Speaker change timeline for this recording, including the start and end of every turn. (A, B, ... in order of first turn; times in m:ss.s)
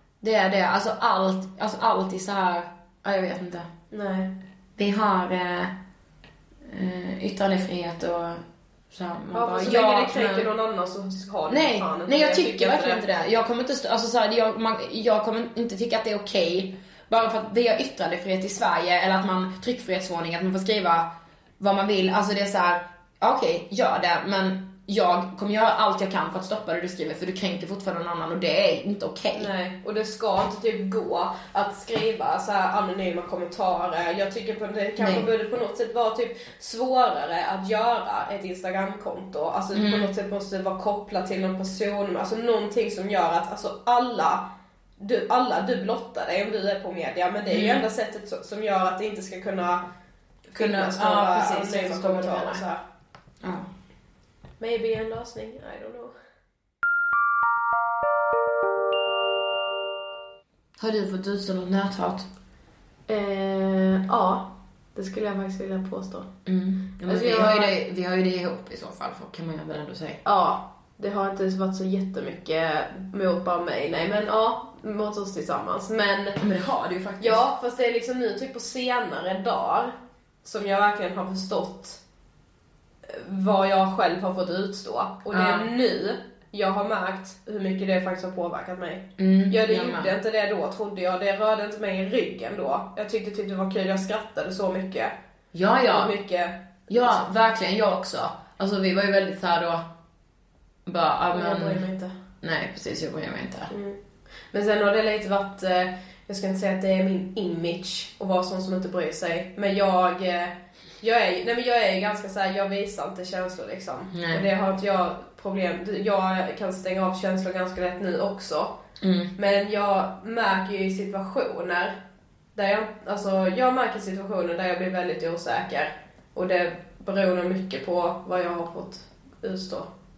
0:00.2-0:03.7 A
0:03.9-0:04.3 B
0:04.8-0:05.7 A
0:06.7-0:10.5 A
0:09.3-0:13.0 B
0:11.5-0:29.5 A
0:29.3-0:44.4 B
0:35.0-0:35.3 A
0:39.7-0:40.1 A
0:45.0-0:49.8 B
0:47.5-0:47.8 A
0:50.5-0:52.8 B
0:50.5-0:52.6 A
0:53.4-0:53.7 A
0:54.6-0:56.1 B
1:00.8-1:02.3 A
1:03.1-1:06.3 B
1:06.4-1:10.2 A
1:07.0-1:07.7 B
1:10.2-1:16.4 B
1:16.4-1:17.4 A
1:17.2-1:22.0 B
1:23.1-1:35.2 B
1:25.3-1:25.7 A
1:29.2-1:30.1 A
1:35.5-1:36.1 A
1:35.9-1:37.3 B
1:36.9-1:39.9 A
1:40.8-1:41.9 A
1:41.3-1:42.1 B
1:42.4-1:43.7 A
1:43.7-1:44.0 B
1:44.5-1:58.8 B
1:54.1-1:54.4 A
1:59.0-1:59.3 A
1:59.4-2:02.0 B
2:02.5-2:09.9 B